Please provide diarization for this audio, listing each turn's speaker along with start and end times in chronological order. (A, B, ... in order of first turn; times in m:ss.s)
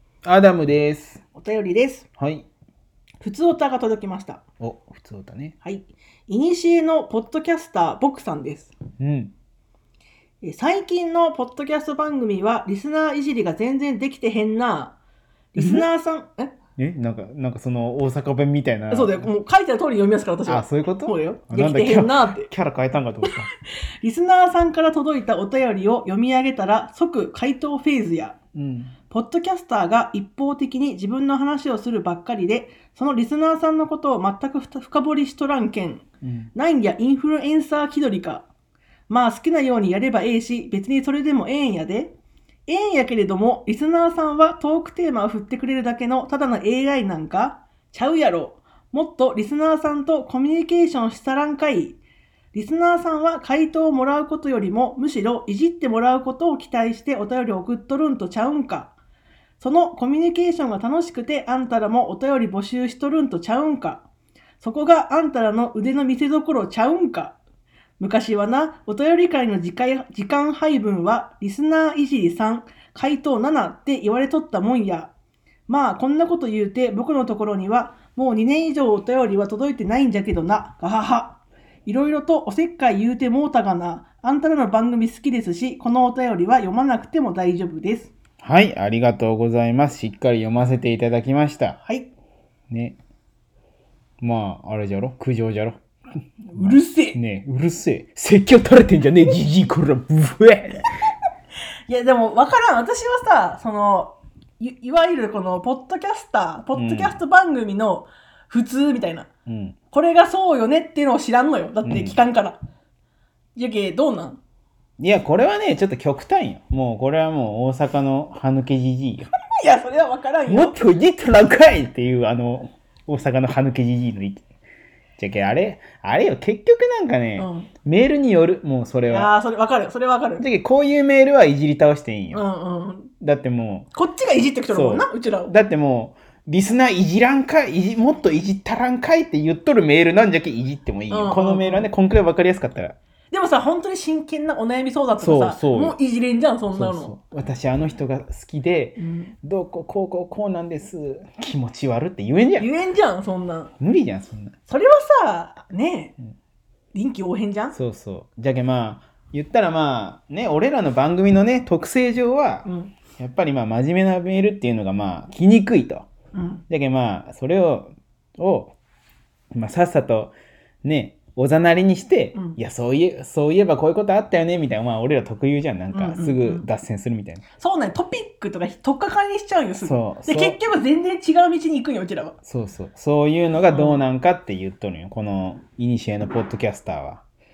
0:00.2-0:01.2 A
0:01.3-0:02.1 B
0:02.2-0:02.5 A
0:03.2-0:04.4 B
0:04.6-0:05.6 A
0:05.6-0:08.7 B
0:09.0-0:09.3 A
0:10.4-0:15.0 B
0:15.5-0:16.5 B
0:15.6-0:15.9 A
0:16.8-0:19.3 A
0:18.9-0:22.5 B
0:20.5-0:23.5 A
0:24.0-0:28.4 B
0:28.5-0:28.9 A
0:29.1-0:38.4 B
0:36.2-0:36.5 A
0:39.1-0:42.1 B
0:42.7-0:52.0 B
0:52.5-0:58.9 B
0:59.6-1:04.0 B
1:04.6-1:07.4 B
1:08.0-1:15.1 B
1:15.7-1:28.1 B
1:28.4-1:31.8 A
1:31.8-1:32.1 B
1:32.7-1:33.0 A
1:34.2-1:35.8 A
1:36.5-1:37.2 B
1:36.6-1:40.9 A
1:41.9-1:49.3 B
1:46.7-1:47.2 A
1:49.5-1:49.8 A
1:49.9-1:52.6 B
1:51.8-1:52.2 A
1:53.6-1:54.4 B
1:55.0-1:59.3 A
1:59.6-2:00.8 B
2:00.5-2:04.4 A
2:05.2-2:09.3 A
2:07.4-2:07.7 B
2:09.1-2:10.4 B
2:10.4-2:12.4 A
2:12.3-2:13.1 B
2:13.2-2:13.9 A
2:13.9-2:15.5 B
2:14.7-2:23.0 A
2:21.1-2:21.9 B
2:23.3-2:27.1 B
2:25.2-2:26.0 A
2:26.7-2:32.7 A
2:29.0-2:29.3 B
2:32.6-2:33.7 B
2:33.8-2:34.5 A
2:34.7-2:36.2 B
2:36.9-2:37.8 B
2:37.7-2:46.1 A
2:42.6-2:42.9 B
2:46.3-2:46.6 B
2:46.7-2:48.7 A
2:49.5-2:57.4 A
2:55.9-2:56.6 B
2:57.6-3:02.4 B
2:59.8-3:00.6 A
3:02.4-3:07.2 A
3:03.7-3:04.0 B